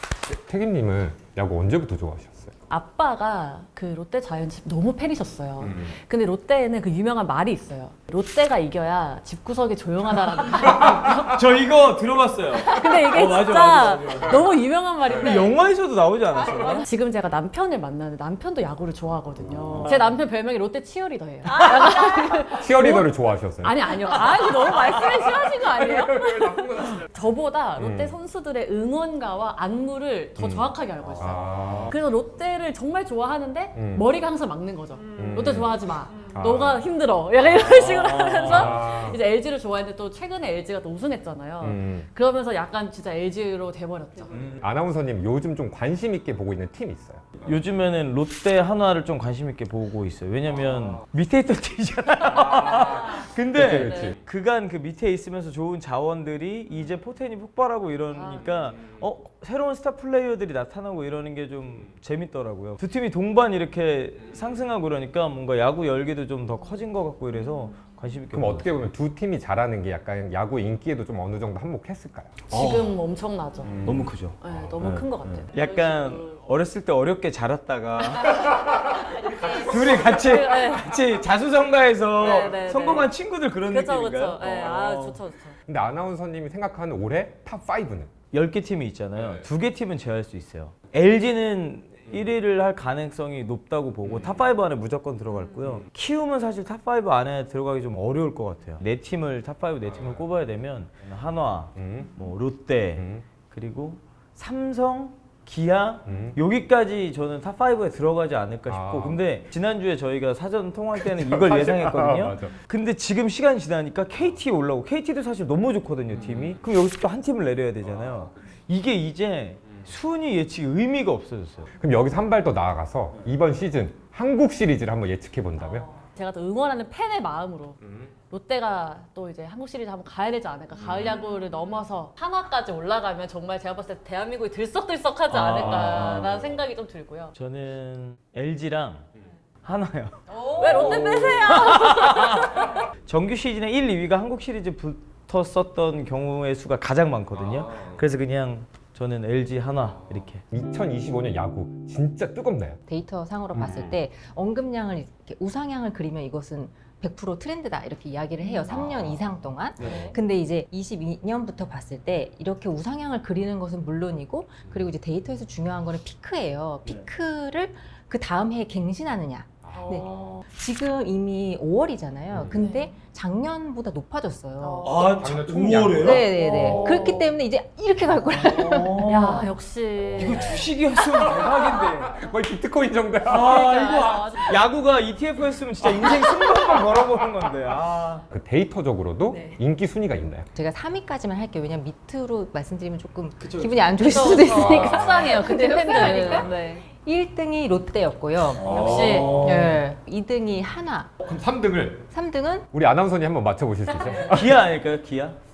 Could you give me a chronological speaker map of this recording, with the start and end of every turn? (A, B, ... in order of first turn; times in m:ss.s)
0:00.3-0:02.5 A
0:02.7-0:11.4 B
0:10.6-0:14.5 C
0:12.6-0:15.6 B
0:15.1-0:16.9 C
0:16.5-0:44.5 B
0:19.6-0:20.0 A
0:22.5-0:23.9 A
0:27.8-0:28.1 A
0:30.4-0:31.9 A
0:33.8-0:34.0 A
0:35.2-0:36.8 A
0:37.7-0:38.8 C
0:38.5-0:39.2 A
0:41.6-0:42.1 A
0:44.3-0:44.6 C
0:44.6-0:47.3 A
0:47.4-1:08.9 C
0:53.6-0:54.2 A
0:53.7-0:54.2 B
0:58.2-0:58.6 B
1:08.3-1:12.4 A
1:12.5-1:13.8 B
1:12.5-1:12.8 C
1:13.7-1:14.0 A
1:13.8-1:18.7 C
1:14.4-1:16.4 B
1:18.2-1:21.0 B
1:19.3-1:25.2 C
1:22.2-1:23.1 B
1:23.7-1:25.6 B
1:25.7-1:28.1 A
1:28.3-2:01.7 C
1:41.8-1:42.1 A
1:43.0-1:43.3 A
1:46.1-1:46.4 A
1:48.7-1:49.2 A
1:51.0-1:52.6 A
1:56.1-1:56.5 A
2:01.8-2:05.9 A
2:05.7-2:17.3 B
2:15.3-2:16.5 C
2:17.4-2:19.1 C
2:19.6-2:30.4 C
2:20.3-2:22.8 B
2:30.5-2:32.8 A
2:32.9-2:55.0 D
2:33.5-2:33.9 A
2:38.7-2:39.1 A
2:39.8-2:40.1 A
2:49.7-2:50.0 A
2:50.0-2:50.4 B
2:52.5-2:52.9 B
2:54.6-2:55.0 B
2:54.8-2:57.3 C
2:55.1-2:56.9 A
2:56.0-2:59.0 D
2:58.4-2:59.5 C
2:59.1-3:00.7 B
3:00.2-3:02.1 C
3:00.2-3:03.8 A
3:03.2-3:08.2 C
3:03.3-3:04.6 B
3:06.0-3:07.0 A
3:08.3-3:10.5 A
3:10.5-3:21.2 D
3:13.4-3:13.7 C
3:14.0-3:16.8 B
3:14.6-3:15.3 A
3:18.6-3:19.3 B
3:18.8-3:19.5 A
3:19.0-3:19.8 C
3:21.2-3:22.0 A
3:22.1-3:22.7 D
3:22.7-3:24.5 A
3:24.2-3:25.4 C